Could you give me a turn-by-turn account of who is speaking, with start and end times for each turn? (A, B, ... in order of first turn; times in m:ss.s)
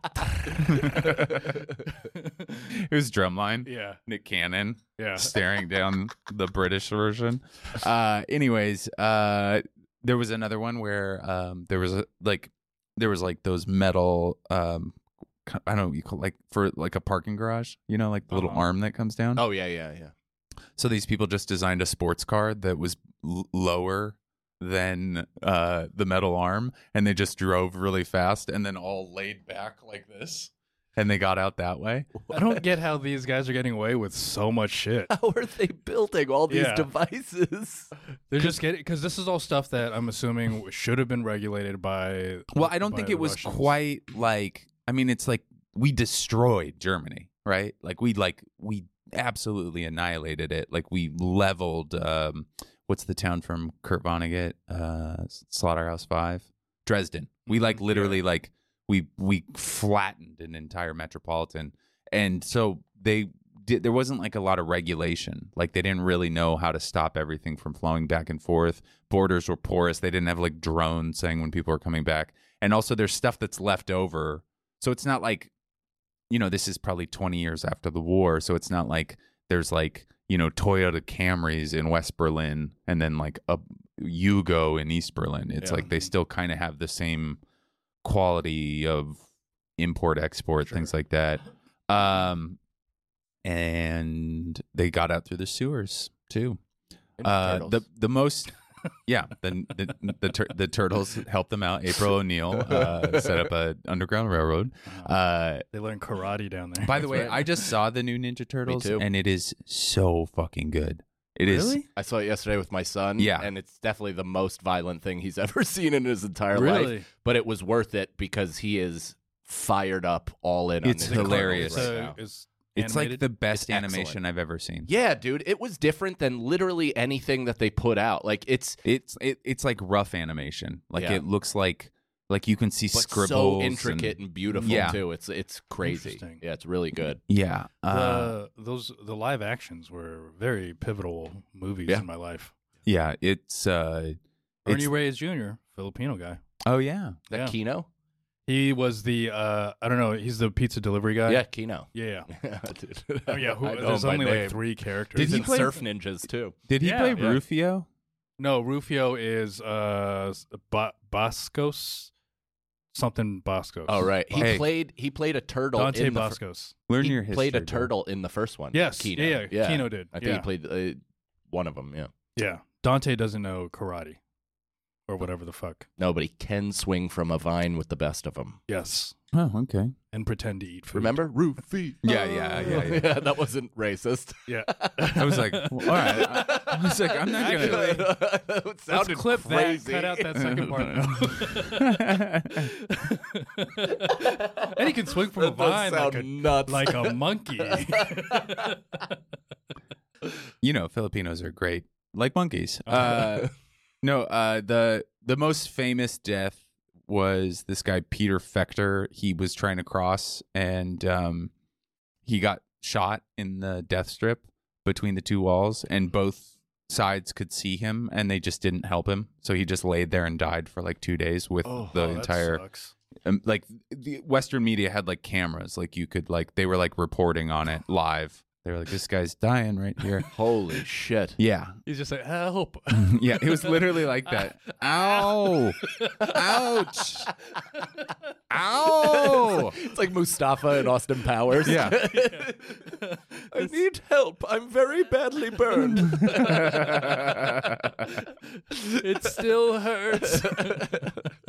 0:00.5-0:02.7 A
0:00.6-0:01.7 B
0:02.7-0:19.4 B
0:03.6-0:04.0 A
0:05.0-0:05.3 A
0:18.3-0:18.7 A
0:19.4-0:20.1 C
0:20.8-0:32.1 B
0:32.3-0:35.1 A
0:35.1-0:37.9 C
0:36.5-0:36.9 A
0:38.3-0:43.7 A
0:42.5-1:15.5 B
0:57.5-0:58.2 A
1:16.3-1:27.4 B
1:25.6-1:25.9 C
1:28.0-1:29.2 B
1:29.8-1:32.6 B
1:33.4-1:36.6 B
1:37.2-1:37.8 C
1:37.2-1:38.5 B
1:39.1-1:45.7 B
1:42.6-1:43.5 C
1:45.7-1:47.3 A
1:46.8-1:51.8 B
1:47.0-1:47.4 C
1:48.7-1:49.0 C
1:51.5-1:51.9 A
1:52.0-2:02.2 C
1:53.2-1:53.5 B
1:56.5-1:57.1 A
2:00.8-2:02.1 B
2:01.0-2:03.3 A
2:02.8-2:04.9 B
2:03.5-2:04.2 C
2:04.9-2:08.8 C
2:08.8-2:15.0 B
2:11.0-2:11.2 C
2:12.9-2:17.2 C
2:14.5-2:14.9 A
2:15.8-2:16.4 A
2:17.3-2:18.4 B
2:17.9-2:22.5 A
2:22.8-2:24.9 B
2:24.7-2:26.4 A
2:26.7-2:27.2 B
2:27.3-2:27.9 C
2:28.5-2:32.3 A
2:31.3-2:36.6 C
2:33.3-2:35.7 A
2:35.2-2:35.8 B
2:36.7-2:37.9 B
2:36.8-2:37.4 A
2:38.4-2:42.1 A
2:42.9-2:44.6 A
2:43.9-2:46.4 C
2:44.4-2:44.7 B
2:45.8-2:46.8 A
2:46.9-2:47.9 B
2:47.0-2:52.1 C
2:48.7-2:50.5 A
2:52.4-2:54.2 A
2:55.1-2:55.9 A
2:56.0-2:58.6 C
2:58.7-2:59.2 A
2:59.3-3:00.0 B
3:00.1-3:01.2 A
3:00.9-3:05.3 C
3:02.0-3:03.1 B
3:02.1-3:03.0 A
3:04.5-3:06.4 A
3:05.2-3:08.1 B
3:05.9-3:10.5 C
3:07.4-3:08.0 A
3:08.9-3:19.1 A
3:10.4-3:12.7 B
3:13.9-3:18.8 C
3:20.6-3:23.5 B
3:22.9-3:23.4 C
3:24.0-3:31.5 B
3:32.2-3:42.6 B
3:41.6-3:42.9 A
3:43.2-3:50.3 B
3:50.3-3:51.4 C
3:51.4-3:51.8 B
3:51.9-3:54.4 A
3:52.9-3:57.3 B
3:55.8-3:56.3 A
3:58.5-3:59.8 B
3:59.0-4:07.9 C
4:01.6-4:02.0 B
4:02.0-4:03.7 A
4:06.0-4:08.1 B
4:08.7-4:09.5 C
4:09.0-4:11.1 A
4:10.1-4:11.3 C